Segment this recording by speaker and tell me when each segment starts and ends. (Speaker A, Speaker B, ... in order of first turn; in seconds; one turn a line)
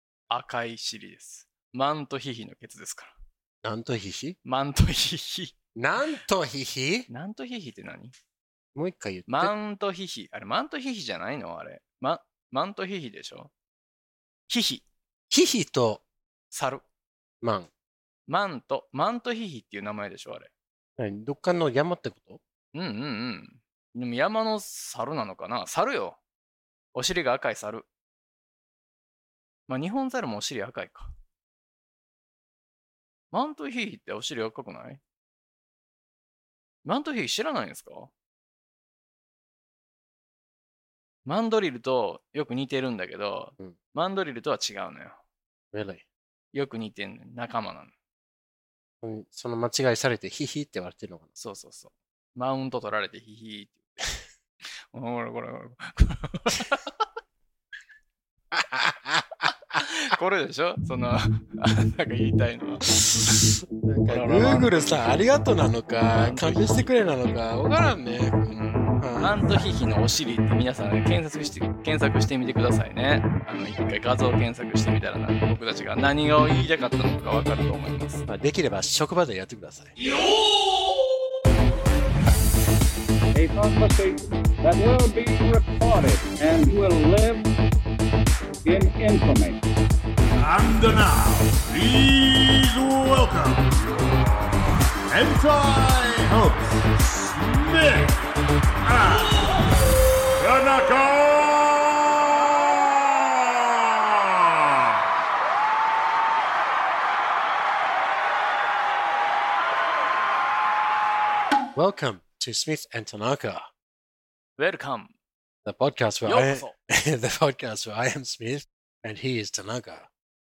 Speaker A: 0.3-3.1
Speaker B: 3.6-4.4
Speaker A: 4.4-5.5
Speaker B: 5.7-7.1
Speaker A: 7.1-8.1
Speaker B: 8.7-9.5
Speaker A: 9.3-13.5
Speaker A: 14.5-14.8
Speaker B: 15.3-16.0
Speaker A: 16.5-16.8
Speaker B: 17.4-17.7
Speaker A: 18.3-20.5
Speaker B: 21.0-22.4
Speaker A: 22.7-26.2
Speaker A: 26.9-27.9
Speaker A: 29.7-31.1
Speaker A: 33.3-35.0
Speaker A: 36.8-38.1
Speaker A: 41.2-45.2
Speaker B: 45.7-46.0
Speaker A: 46.5-47.9
Speaker B: 49.0-51.3
Speaker A: 51.4-54.1
Speaker A: 54.9-56.9
Speaker B: 58.5-59.5
Speaker A: 59.8-63.4
Speaker B: 63.3-69.7
Speaker A: 64.1-64.9
Speaker A: 66.2-67.1
Speaker A: 68.5-78.2
Speaker B: 78.2-79.9
Speaker C: 83.3-87.5
Speaker C: 88.6-89.6
Speaker D: 90.4-94.1
Speaker D: 95.1-98.2
Speaker D: 98.8-99.5
Speaker D: 100.3-102.2
Speaker B: 111.7-113.7
Speaker A: 114.6-115.1
Speaker B: 115.6-120.1
Speaker A: 116.2-116.8